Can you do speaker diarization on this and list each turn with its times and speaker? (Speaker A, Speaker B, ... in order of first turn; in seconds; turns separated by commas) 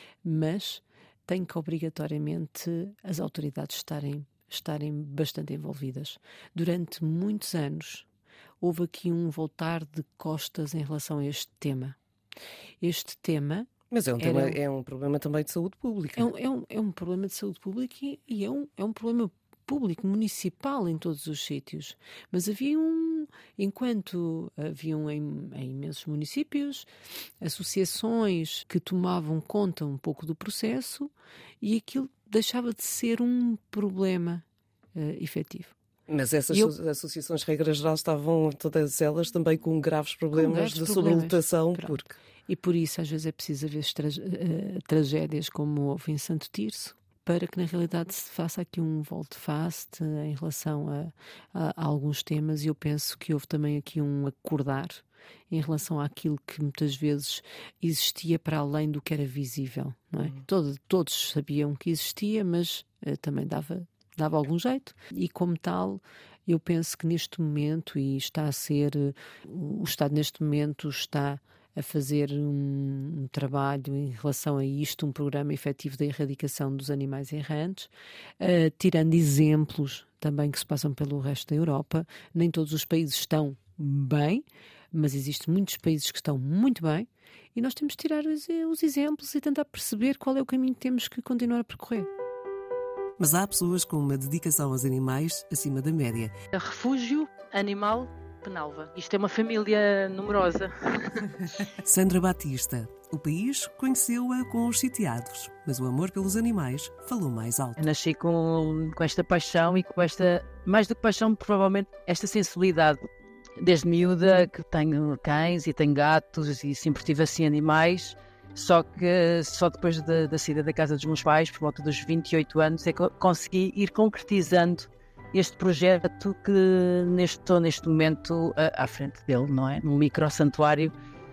Speaker A: 0.2-8.1, Speaker A: 8.6-12.0, Speaker A: 12.8-14.6, Speaker B: 13.9-16.3, Speaker A: 16.2-26.9, Speaker A: 27.4-34.4, Speaker A: 35.0-35.7, Speaker B: 36.1-42.1, Speaker A: 40.3-92.1, Speaker B: 93.2-96.3, Speaker C: 96.5-101.4, Speaker B: 101.8-107.8, Speaker C: 107.8-113.0, Speaker C: 113.6-130.9